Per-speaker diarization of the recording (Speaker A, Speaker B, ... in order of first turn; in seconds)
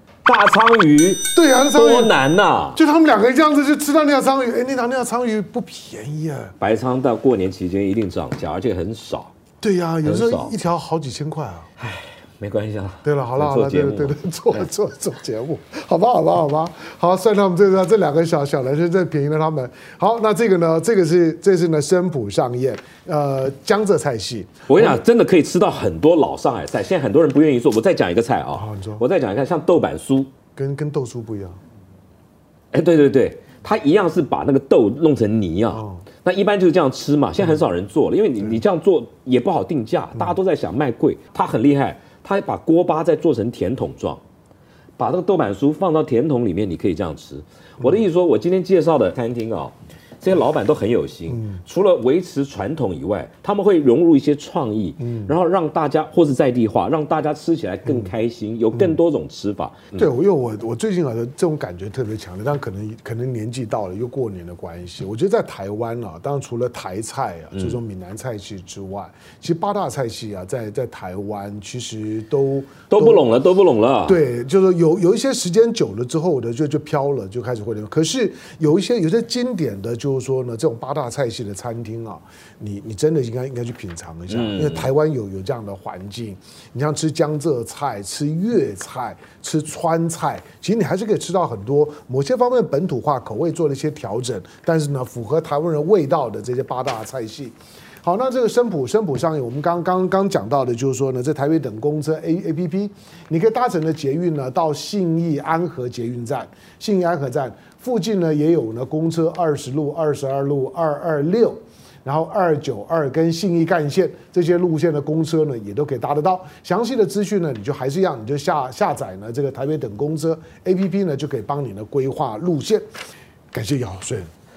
Speaker A: 0.2-2.8, 6.6-9.3, 10.0-10.5, 11.8-14.7, 24.7-30.3, 32.7-44.2, 45.0-60.0, 72.9-74.2, 84.3-84.9
Speaker B: 1.3-2.1, 2.8-6.5, 9.6-11.7, 13.0-25.0, 28.5-29.1, 30.6-31.6, 35.7-36.1, 51.3-51.6, 55.0-55.3, 57.9-58.1, 58.7-59.0, 60.0-73.3, 74.1-122.8, 123.5-124.3